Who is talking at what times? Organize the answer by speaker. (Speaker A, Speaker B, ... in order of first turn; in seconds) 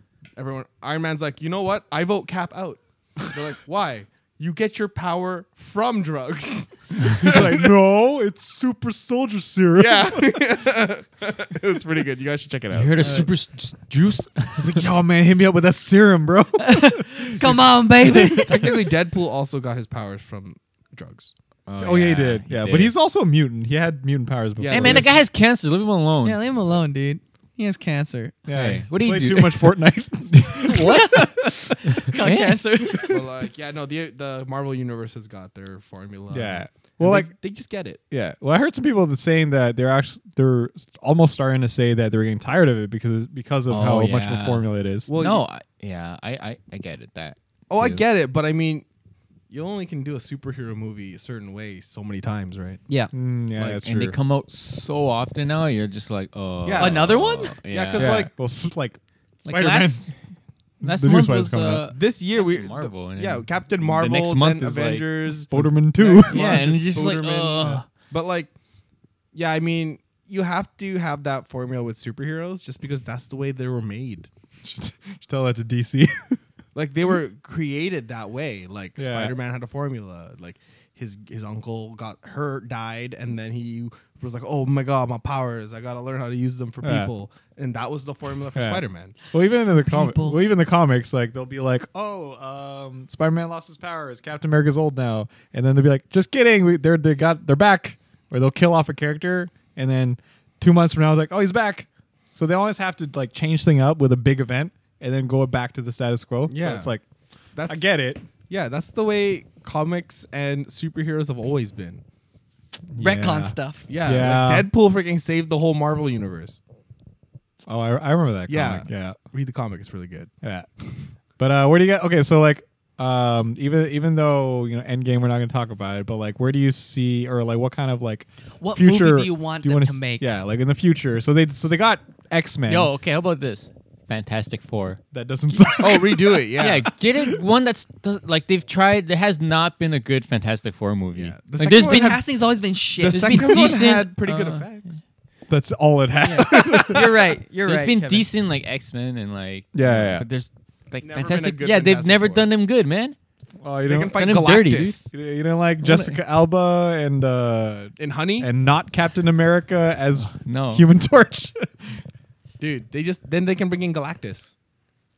Speaker A: 0.4-7.7, 9.8-13.3, 18.2-21.3, 24.6-25.2, 33.0-38.0, 45.1-45.5, 47.7-48.9, 49.5-52.8, 56.6-58.3, 61.8-68.5, 69.3-74.3, 76.7-89.2, 106.5-106.9, 107.5-107.9, 108.5-112.0, 113.9-116.6, 118.5-120.3, 135.8-136.9, 141.2-142.2, 143.0-144.9, 146.4-147.2, 151.0-152.5, 153.9-155.1, 158.0-158.5, 162.6-164.5
Speaker B: 7.1-10.6, 14.6-17.4, 18.1-18.4, 21.8-25.2, 28.5-32.1, 36.3-37.3, 38.1-45.1, 53.1-54.1, 57.9-60.1, 60.8-61.9, 65.5-66.6, 74.6-76.4, 79.0-79.3, 86.8-87.1, 88.5-107.0, 107.7-108.3, 112.9-114.7, 117.7-119.2, 120.4-132.9, 135.1-136.5, 145.5-147.1, 149.7-150.3, 153.6-154.3, 155.1-162.0
Speaker C: 12.7-14.9, 21.7-22.9, 24.7-26.4, 28.5-31.3, 32.1-32.6, 43.7-48.1, 53.6-58.2, 59.5-60.1, 60.8-65.1, 66.3-67.9, 132.7-135.0, 136.6-142.2, 143.1-144.7, 147.6-153.2, 154.1-155.0, 160.2-160.8
Speaker D: 16.6-18.8, 26.2-28.4, 30.6-33.2, 56.8-57.6, 89.9-90.5, 113.0-113.9, 128.6-130.3, 141.6-143.7, 146.2-148.3, 155.8-156.1